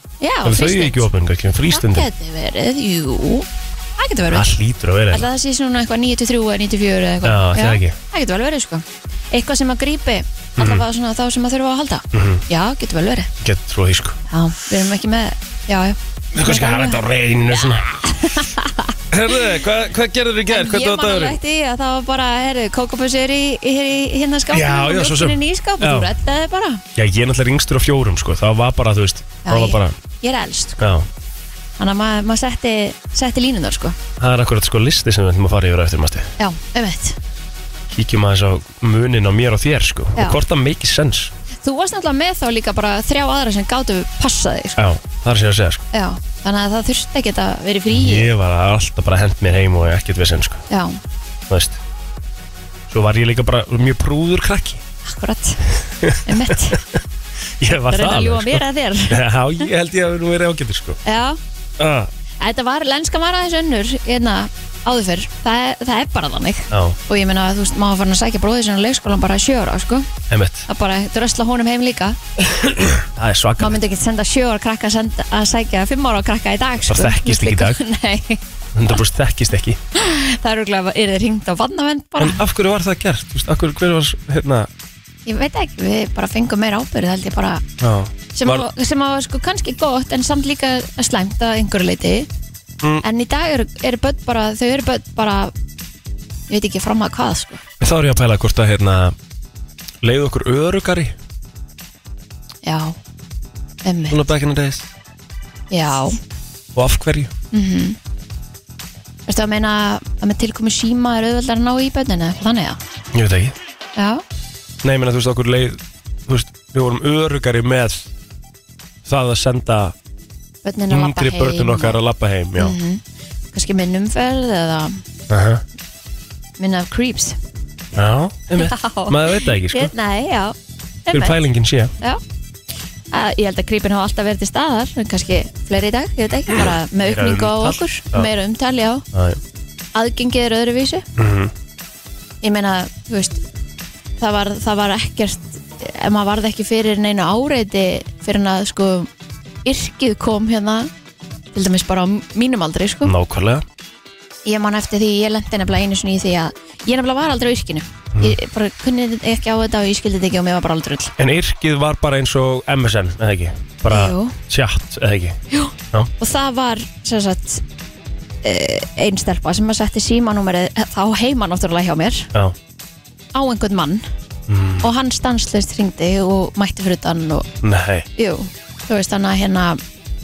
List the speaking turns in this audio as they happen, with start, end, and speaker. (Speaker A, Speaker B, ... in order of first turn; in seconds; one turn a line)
Speaker A: 0.2-1.1
Speaker B: 0.4-2.1
Speaker A: 1.6-4.5
Speaker B: 4.3-5.3
Speaker A: 5.1-13.3
Speaker B: 7.2-8.0
Speaker B: 10.6-10.8
Speaker B: 12.1-12.4
Speaker B: 13.4-14.2
Speaker A: 14.3-17.0
Speaker B: 16.3-17.9
Speaker A: 18.0-18.9
Speaker B: 19.1-21.4
Speaker A: 20.5-26.8
Speaker B: 24.5-26.1
Speaker B: 26.9-30.0
Speaker A: 29.4-30.8
Speaker B: 30.8-31.1
Speaker A: 31.8-34.0
Speaker B: 34.2-36.3
Speaker A: 36.4-37.2
Speaker B: 37.9-41.3
Speaker A: 41.6-44.8
Speaker B: 44.8-45.8
Speaker A: 45.9-48.3
Speaker B: 47.9-50.6
Speaker A: 50.7-51.0
Speaker B: 51.5-51.8
Speaker B: 52.9-54.8
Speaker A: 55.0-56.8
Speaker B: 56.0-57.0
Speaker B: 57.6-61.0
Speaker A: 57.7-59.2
Speaker A: 61.0-61.4
Speaker B: 61.8-62.1
Speaker A: 62.4-70.1
Speaker B: 66.7-67.0
Speaker B: 70.3-70.7
Speaker A: 70.7-72.2
Speaker B: 72.5-73.8
Speaker A: 73.6-78.4
Speaker B: 76.9-77.8
Speaker B: 78.7-79.8
Speaker A: 79.9-82.4
Speaker B: 82.2-84.7
Speaker A: 85.2-87.6
Speaker B: 87.8-88.7
Speaker A: 88.3-92.3
Speaker A: 93.0-95.5
Speaker A: 96.5-97.6
Speaker B: 97.8-99.1
Speaker B: 100.0-101.1
Speaker A: 102.6-103.0
Speaker A: 103.8-104.2
Speaker B: 104.1-104.9
Speaker A: 105.7-106.2
Speaker B: 106.7-107.3
Speaker A: 107.5-108.0
Speaker A: 109.3-112.8
Speaker B: 113.1-113.5
Speaker A: 114.0-114.2
Speaker B: 114.8-118.1
Speaker B: 119.0-119.9
Speaker A: 120.6-122.0
Speaker B: 120.9-122.8
Speaker A: 122.5-123.0
Speaker A: 123.5-125.0
Speaker B: 125.3-125.6
Speaker A: 126.6-127.4
Speaker B: 127.9-129.9
Speaker A: 128.5-130.6
Speaker A: 131.1-131.3
Speaker B: 131.1-131.9
Speaker A: 133.1-139.1
Speaker B: 136.5-138.3
Speaker B: 139.1-139.4
Speaker A: 139.9-141.0
Speaker B: 141.2-141.5
Speaker A: 142.4-143.4
Speaker A: 144.2-149.1
Speaker A: 149.6-150.9
Speaker A: 151.5-153.1
Speaker B: 153.0-153.6
Speaker A: 154.4-161.1
Speaker B: 161.2-165.4
Speaker A: 163.9-164.3
Speaker A: 165.5-167.6
Speaker A: 168.4-172.3
Speaker A: 173.3-174.1
Speaker B: 174.5-174.9
Speaker A: 174.8-177.5
Speaker B: 177.6-178.1
Speaker A: 178.2-179.8